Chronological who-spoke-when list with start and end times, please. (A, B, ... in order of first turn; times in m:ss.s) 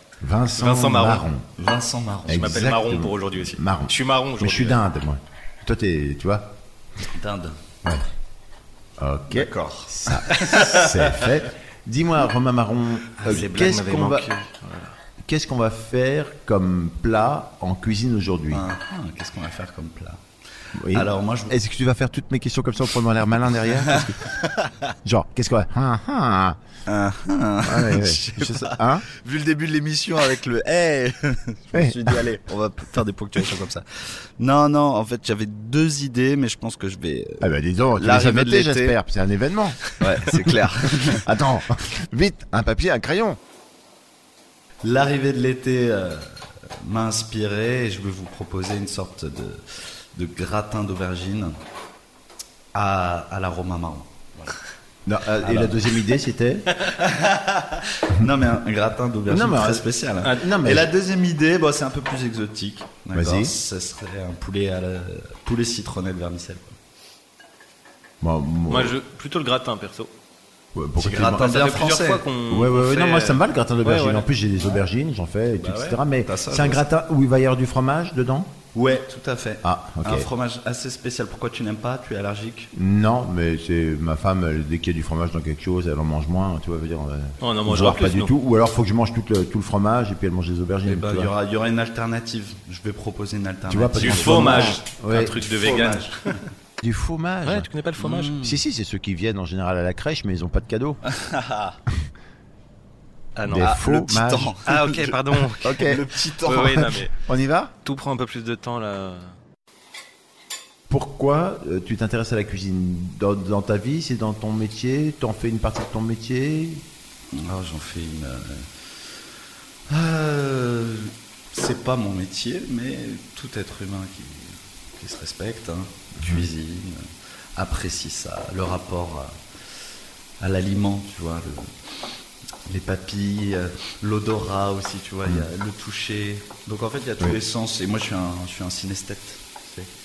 0:00.2-0:01.4 A
0:00.6-0:01.3 B
0:01.6-0:02.6 C
0:02.3-0:06.6 A
0:02.3-0:04.8 B
0:07.1-0:07.6 C
0:09.0-0:14.3 A
0:09.3-0:11.2 C
0:13.2-0:15.0 B
0:15.2-0:18.7 A
0:18.5-0:20.2 C
0:20.8-0:24.4 A
0:20.9-0:21.6 C
0:23.8-0:24.9 C
0:25.0-0:26.6 A
0:26.9-0:39.0 C
0:27.6-0:29.1 A
0:31.7-0:32.2 A
0:37.4-0:39.9 A
0:40.0-0:41.3 C
0:41.1-0:43.4 A
0:44.8-0:51.6 C
0:52.7-0:54.6 C
0:55.1-0:56.7 A
0:55.4-0:55.9 C
0:56.9-1:06.8 C
0:59.3-1:00.9 A
1:03.1-1:03.6 A
1:08.2-1:09.0 A
1:08.7-1:10.1 B
1:10.8-1:11.5 A
1:11.0-1:12.3 C
1:11.1-1:14.2 B
1:12.5-1:18.5 A
1:15.6-1:16.9 C
1:18.8-1:22.7 C
1:19.6-1:20.3 A
1:22.7-1:31.3 A
1:27.4-1:28.3 B
1:30.8-1:36.5 C
1:33.7-1:35.4 A
1:34.0-1:36.4 B
1:36.8-1:37.7 A
1:37.4-1:38.4 B
1:38.0-1:38.6 C
1:38.4-1:41.0 A
1:41.1-1:41.8 C
1:43.4-1:43.7 B
1:43.5-1:44.5 A
1:43.5-1:47.0 C
1:44.6-1:47.1 B
1:45.6-1:46.1 A
1:47.2-1:47.7 A
1:47.8-1:49.3 B
1:50.9-1:56.8 A
1:57.3-1:59.2 C
1:59.9-2:09.9 C
2:06.2-2:06.5 A
2:10.4-2:12.0 C
2:12.7-2:19.9 C